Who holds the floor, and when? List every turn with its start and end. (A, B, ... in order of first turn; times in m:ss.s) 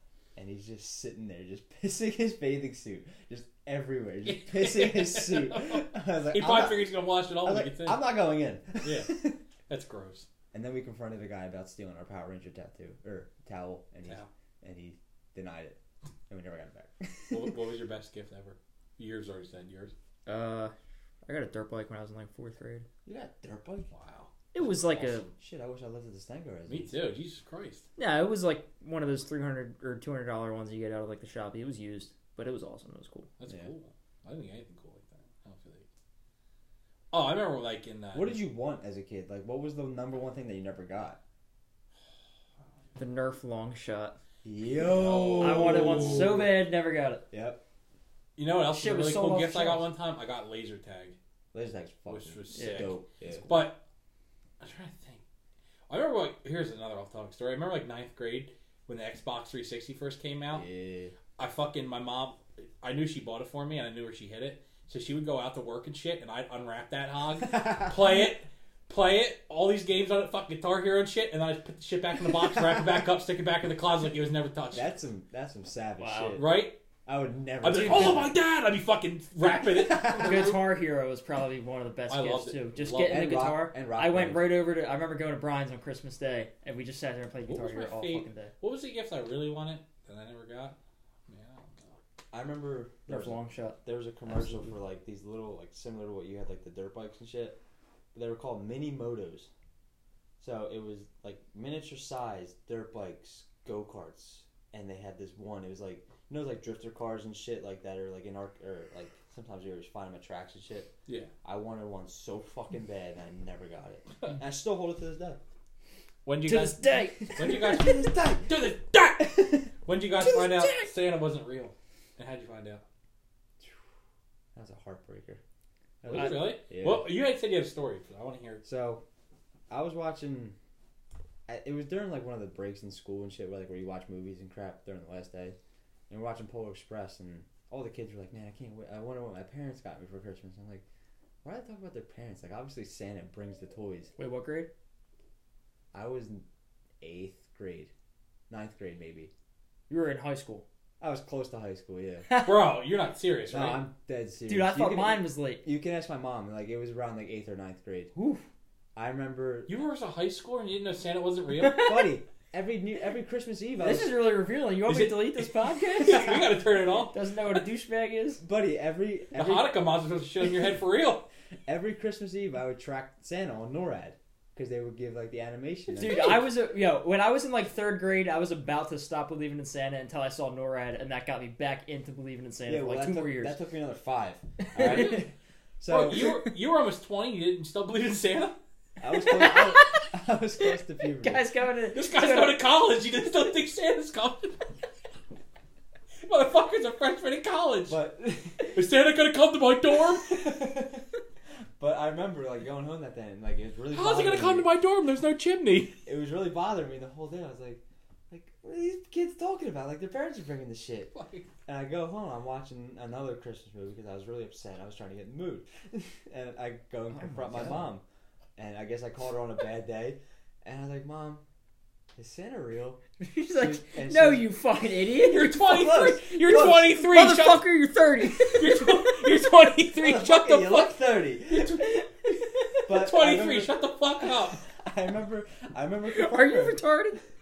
0:00.3-0:09.4 A
0:04.2-0:08.1 B
0:08.8-0:10.3 B
0:10.5-0:17.5 A
0:17.3-0:19.9 B
0:20.2-0:20.7 C
0:21.2-0:22.9 C
0:23.0-0:23.9 A
0:23.9-0:24.3 B
0:24.5-0:25.3 C
0:25.0-0:26.9 A
0:26.7-0:27.8 B
0:28.0-0:33.3 C
0:33.4-0:35.8 B
0:37.1-0:38.4 B
0:38.1-0:41.2 A
0:43.0-0:44.2 C
0:44.4-0:46.6 A
0:44.8-0:46.4 B
0:45.4-0:47.2 C
0:47.3-0:47.6 A
0:48.4-0:51.2 B
0:48.7-0:49.9 C
0:51.5-0:53.5 A
0:52.1-0:53.8 B
0:52.5-0:52.9 C
0:54.6-0:55.2 B
0:55.9-1:00.6 B
1:00.5-1:01.1 A
1:01.4-1:14.9 B
1:14.7-1:16.5 A
1:16.0-1:16.4 C
1:16.4-1:16.8 B
1:17.0-1:18.4 A
1:17.6-1:20.6 B
1:19.9-1:20.4 A
1:20.0-1:28.5 C
1:22.1-1:23.2 B
1:23.0-1:24.5 A
1:27.5-1:30.8 B
1:31.3-1:31.9 B
1:32.3-1:37.6 A
1:33.1-1:34.7 C
1:38.1-1:39.5 A
1:40.4-1:50.9 A
1:51.4-1:55.4 A
1:56.2-2:02.8 B
1:56.4-1:57.6 C
1:57.2-1:59.6 A
2:00.3-2:00.7 C
2:04.5-2:05.4 A
2:06.0-2:07.1 A
2:06.0-2:08.6 B
2:06.1-2:06.5 C
2:08.6-2:09.0 A
2:09.7-2:10.6 A
2:11.5-2:15.6 A
2:16.1-2:20.8 A
2:21.4-2:24.1 A
2:24.2-2:24.7 C
2:25.9-2:26.4 A
2:27.0-2:27.9 A
2:28.5-2:29.3 A
2:29.9-2:30.6 C
2:31.0-2:32.3 A
2:32.3-2:32.6 C
2:32.4-2:33.9 B
2:33.5-2:38.1 A
2:34.5-2:35.6 C
2:38.1-2:38.4 C
2:39.0-2:39.7 A
2:39.7-2:41.9 B
2:41.6-2:42.1 C
2:41.7-2:44.2 A
2:43.8-2:46.4 C
2:44.8-2:47.1 B
2:47.1-2:48.4 C
2:48.4-2:49.8 A
2:49.3-2:51.2 B
2:51.7-2:56.5 A
2:55.9-3:03.6 C
3:02.6-3:06.4 A
3:04.7-3:05.2 C
3:04.8-3:05.2 B
3:05.9-3:08.6 B
3:09.0-3:11.4 A
3:09.2-3:10.1 C
3:11.0-3:12.6 C
3:11.9-3:14.6 B
3:16.2-3:18.0 B
3:17.9-3:18.8 A
3:18.6-3:20.4 B
3:20.1-3:21.1 A
3:21.8-3:24.7 A
3:23.9-3:26.0 B
3:26.0-3:31.1 A
3:31.1-3:31.5 B
3:31.6-3:38.0 A
3:37.1-3:37.9 C
3:38.6-3:41.4 A
3:42.2-3:43.0 A
3:43.2-3:46.0 C
3:43.5-3:44.6 A
3:45.2-3:52.0 B
3:45.5-3:47.0 A
3:46.9-3:49.2 C
3:49.9-3:51.9 A
3:52.8-3:54.6 B
3:52.8-3:56.9 A
3:56.1-3:57.2 C